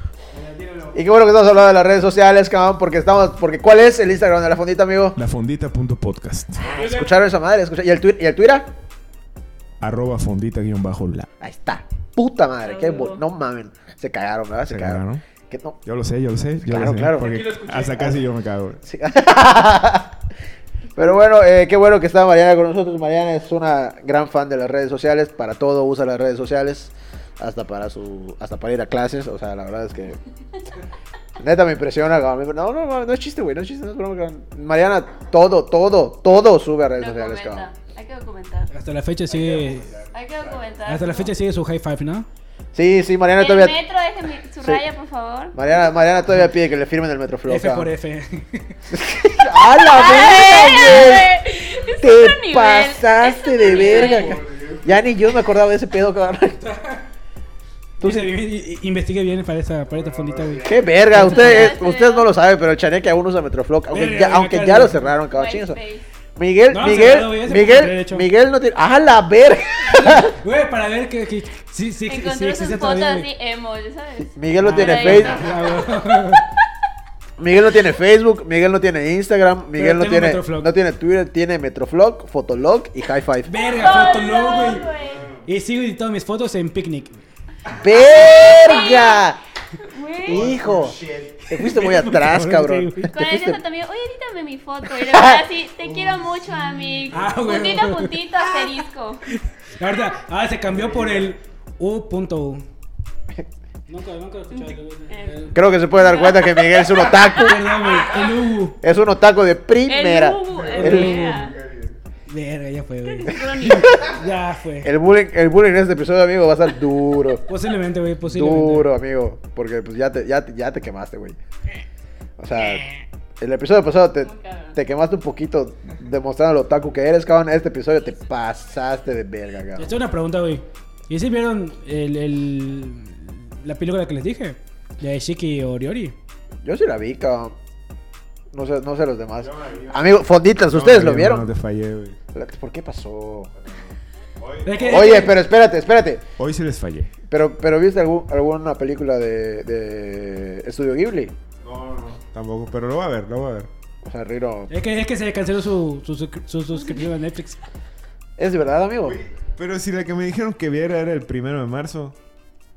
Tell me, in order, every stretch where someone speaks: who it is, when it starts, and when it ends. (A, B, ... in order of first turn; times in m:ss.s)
0:00.3-0:01.0 A
0:00.9-0:05.2 B
0:05.2-0:06.7 C
0:06.6-0:08.7 B
0:06.7-0:07.2 A
0:09.8-0:11.3 C
0:11.4-0:15.8 B
0:12.6-0:13.2 D
0:14.7-0:15.2 C
0:15.8-0:18.8 C
0:16.6-0:17.4 B
0:17.1-0:18.2 A
0:18.8-0:20.2 B
0:21.0-0:30.2 B
0:31.4-0:37.7 B
0:37.0-0:38.7 D
0:38.7-0:39.9 A
0:39.3-0:40.6 C
0:40.1-0:41.3 D
0:40.8-0:42.3 A
0:42.7-0:43.8 B
0:43.4-0:45.5 D
0:45.5-0:47.9 B
0:47.5-0:48.8 A
0:48.9-0:51.4 B
0:49.9-0:54.4 D
0:51.9-0:56.6 B
0:53.9-0:54.9 C
0:56.6-0:57.0 A
0:58.0-0:58.3 B
0:58.0-1:01.7 A
0:59.9-1:00.9 C
1:00.6-1:05.8 B
1:01.2-1:02.3 D
1:03.9-1:05.0 A
1:05.3-1:06.0 D
1:06.4-1:10.4 B
1:06.7-1:08.3 A
1:09.9-1:13.3 A
1:12.1-1:15.4 D
1:14.2-1:15.5 B
1:14.6-1:16.4 A
1:17.4-1:23.5 B
1:19.8-1:20.7 A
1:23.4-1:24.9 A
1:23.6-1:25.2 D
1:24.9-1:25.4 C
1:25.4-1:27.1 A
1:27.8-1:29.4 B
1:27.9-1:29.2 D
1:29.8-1:30.4 D
1:30.2-1:33.6 B
1:30.3-1:31.5 C
1:31.6-1:33.1 A
1:33.1-1:39.2 D
1:34.9-1:35.4 B
1:35.8-1:37.3 C
1:37.1-1:38.7 A
1:39.3-1:42.6 A
1:40.7-1:41.3 C
1:43.9-1:45.6 A
1:44.5-1:47.5 D
1:45.5-1:47.6 B
1:47.4-1:48.8 A
1:48.8-1:51.2 B
1:49.9-1:51.5 D
1:50.5-1:52.0 C
1:50.7-1:51.4 A
1:52.3-1:54.9 A
1:53.1-1:54.0 D
1:53.3-1:54.1 B
1:54.8-1:57.4 B
1:57.5-1:58.9 A
1:58.2-2:01.4 B
2:02.4-2:02.8 B
2:03.4-2:10.0 B
2:04.2-2:04.8 D
2:09.8-2:16.2 A
2:16.6-2:17.6 B
2:18.5-2:21.5 B
2:19.4-2:22.2 C
2:22.3-2:23.5 B
2:23.6-2:25.2 C
2:24.6-2:25.4 A
2:24.8-2:26.2 B
2:26.4-2:27.1 C
2:27.3-2:31.3 B
2:31.6-2:33.7 C
2:34.0-2:34.7 B
2:34.7-2:37.6 A
2:38.4-2:39.2 B
2:39.0-2:42.2 C